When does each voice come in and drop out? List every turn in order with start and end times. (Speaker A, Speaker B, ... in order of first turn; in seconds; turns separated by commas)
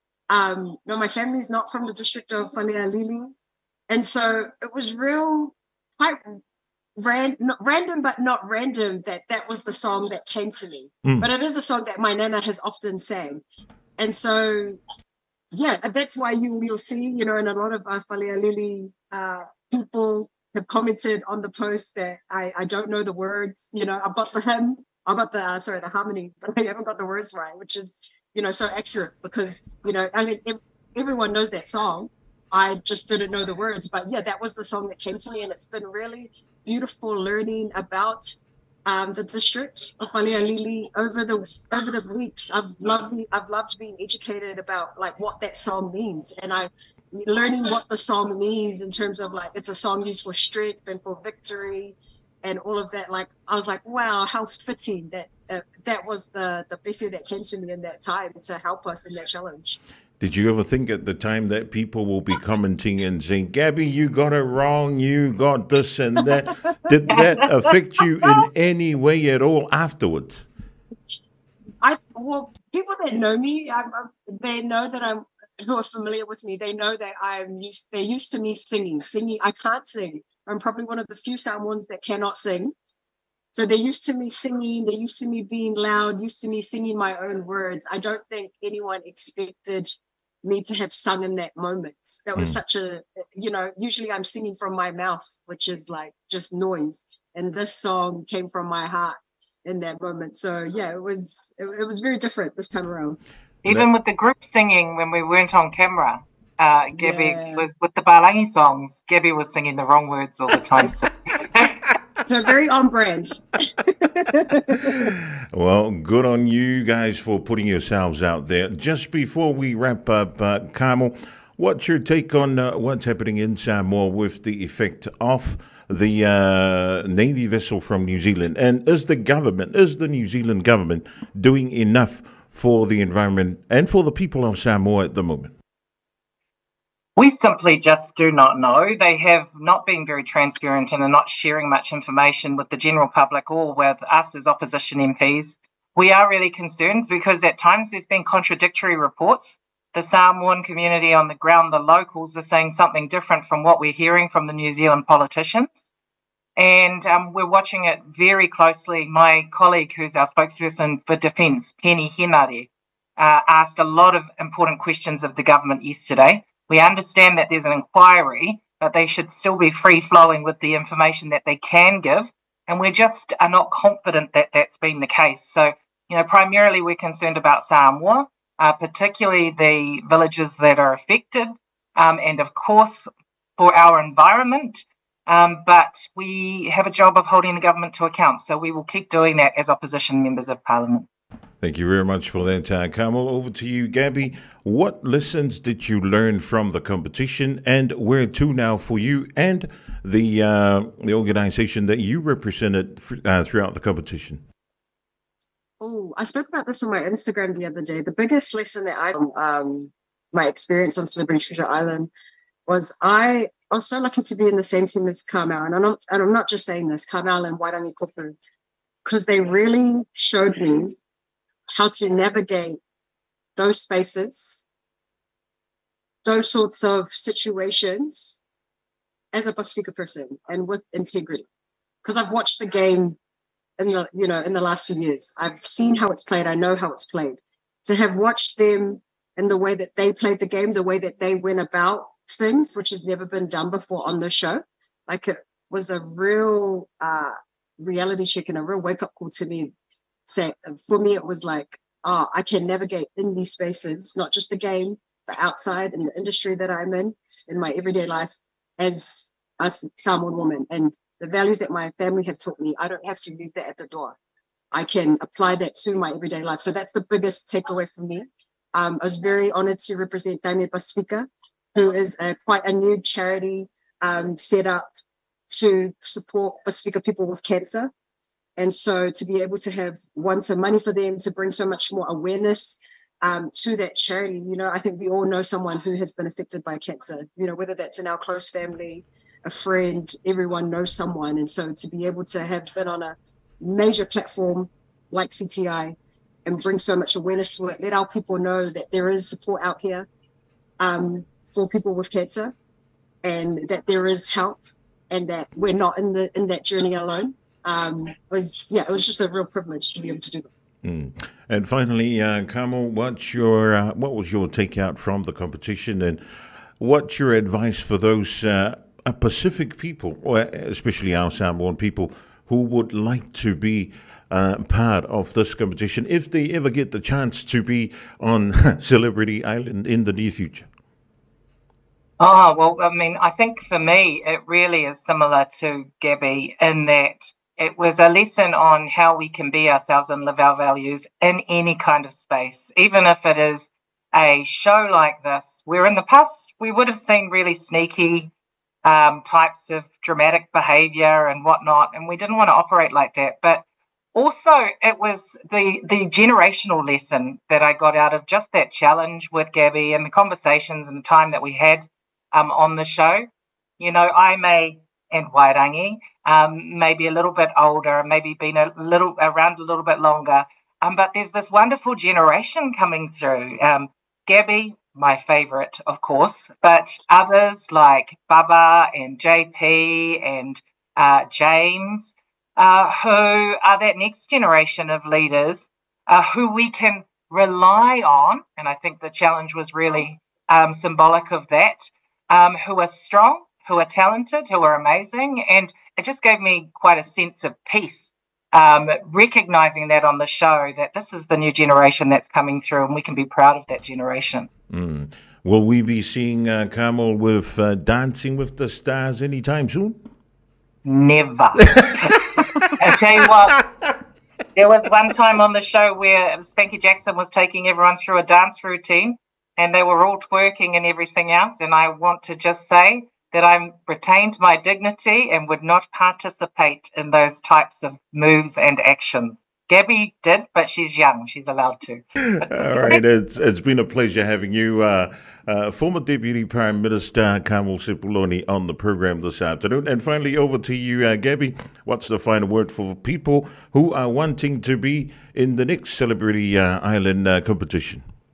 Speaker A: 0.3-3.3, Speaker A: 3.9-6.4, Speaker A: 7.0-13.4, Speaker A: 14.0-14.8, Speaker A: 15.5-38.3, Speaker A: 38.9-59.8, Speaker B: 60.2-70.5, Speaker A: 71.8-82.7, Speaker A: 83.5-89.9, Speaker A: 90.4-103.2, Speaker C: 103.6-111.8, Speaker A: 107.0-107.7, Speaker A: 112.2-115.1, Speaker B: 115.5-135.6, Speaker C: 137.2-155.9, Speaker C: 156.6-191.1, Speaker B: 191.6-204.4, Speaker A: 205.8-212.1, Speaker A: 212.7-218.4, Speaker A: 219.0-220.9, Speaker A: 221.7-222.8, Speaker A: 223.6-224.6, Speaker A: 226.2-228.4, Speaker A: 229.3-231.5, Speaker A: 232.0-233.2, Speaker A: 233.8-249.7, Speaker A: 250.3-264.2, Speaker A: 264.7-274.9, Speaker A: 275.5-277.9, Speaker A: 278.6-300.1, Speaker A: 300.8-302.5, Speaker A: 303.2-310.5, Speaker B: 310.8-316.2, Speaker B: 316.8-330.7, Speaker C: 332.2-348.3, Speaker C: 348.9-353.6, Speaker C: 354.1-404.5, Speaker B: 404.7-410.0, Speaker C: 410.9-413.6, Speaker B: 412.4-412.7, Speaker C: 414.6-433.0, Speaker B: 432.3-448.0